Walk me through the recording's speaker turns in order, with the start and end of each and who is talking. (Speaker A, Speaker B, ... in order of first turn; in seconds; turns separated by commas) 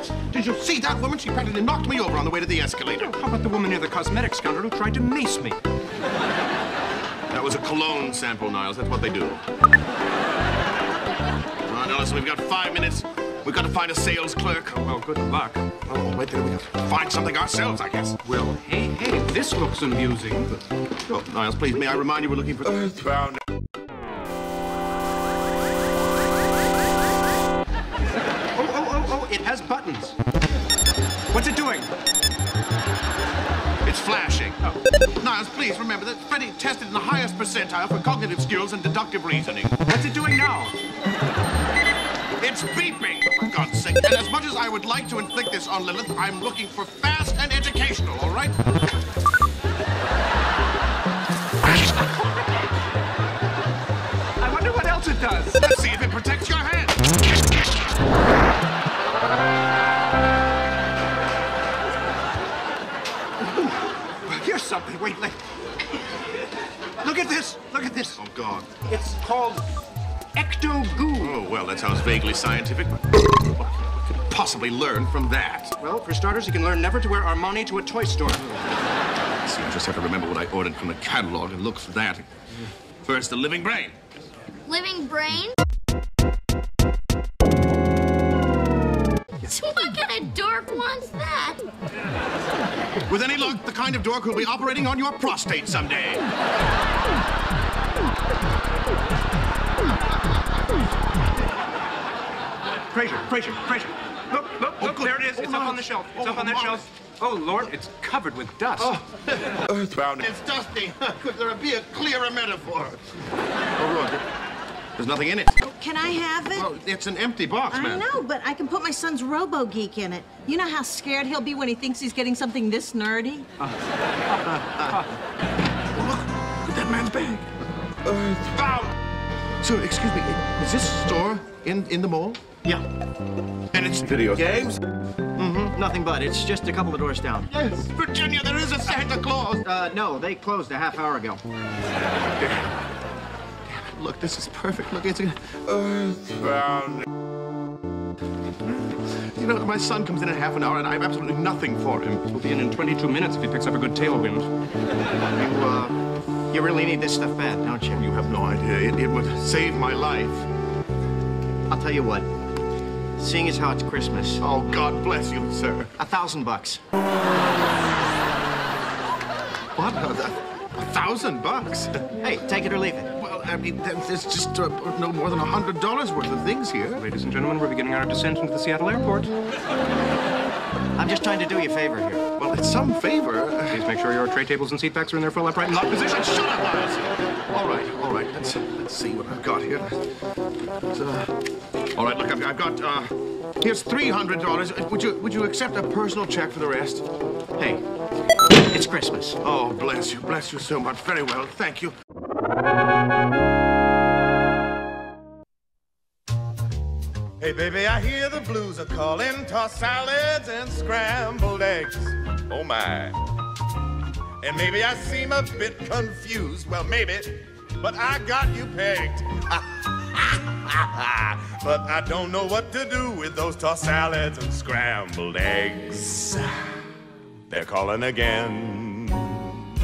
Speaker A: 0.3-3.1, Speaker B: 3.0-5.6, Speaker A: 7.3-9.4, Speaker A: 11.6-14.7, Speaker B: 14.7-15.6, Speaker A: 15.8-18.2, Speaker B: 18.2-20.6, Speaker A: 21.0-23.0, Speaker C: 22.9-23.4, Speaker B: 28.5-30.1, Speaker B: 31.3-31.9, Speaker A: 33.8-34.6, Speaker A: 35.1-39.8, Speaker B: 39.9-40.7, Speaker A: 42.4-48.6, Speaker B: 54.4-55.6, Speaker A: 55.6-57.0, Speaker B: 63.5-63.7, Speaker B: 64.2-65.4, Speaker B: 67.0-68.2, Speaker A: 68.1-68.7, Speaker B: 68.8-69.7, Speaker B: 70.3-71.4, Speaker A: 71.2-75.8, Speaker B: 75.8-78.6, Speaker A: 79.4-82.3, Speaker A: 83.0-83.9, Speaker D: 84.7-85.5, Speaker D: 89.4-91.6, Speaker A: 93.1-96.2, Speaker B: 102.9-108.9, Speaker A: 104.8-106.8, Speaker A: 108.8-113.1, Speaker C: 109.9-110.2, Speaker A: 113.8-114.2, Speaker A: 115.0-115.7, Speaker E: 115.7-116.7, Speaker A: 116.5-118.1, Speaker E: 117.7-123.5, Speaker A: 124.4-125.1, Speaker A: 125.9-127.5, Speaker A: 128.3-128.9, Speaker A: 129.6-132.4, Speaker A: 133.7-134.8, Speaker F: 135.3-137.5, Speaker A: 137.5-139.7, Speaker F: 139.6-141.4, Speaker A: 142.3-142.7, Speaker A: 143.6-146.3, Speaker C: 146.3-147.1, Speaker A: 149.1-152.2, Speaker B: 152.3-154.5, Speaker F: 155.3-155.9, Speaker F: 156.5-158.0, Speaker A: 157.9-160.4, Speaker F: 161.7-162.3, Speaker F: 163.2-164.4, Speaker A: 164.4-165.9, Speaker F: 166.0-166.8, Speaker A: 169.7-172.0, Speaker F: 172.2-173.1, Speaker A: 173.1-177.0, Speaker B: 177.0-179.3, Speaker F: 180.9-182.2, Speaker A: 182.4-183.8, Speaker B: 183.7-185.9, Speaker A: 185.7-190.0, Speaker A: 190.9-191.4, Speaker A: 191.9-197.0, Speaker F: 197.6-197.8, Speaker F: 198.7-199.4, Speaker A: 199.4-201.9, Speaker C: 207.4-213.2, Speaker C: 214.4-226.6, Speaker C: 227.5-229.5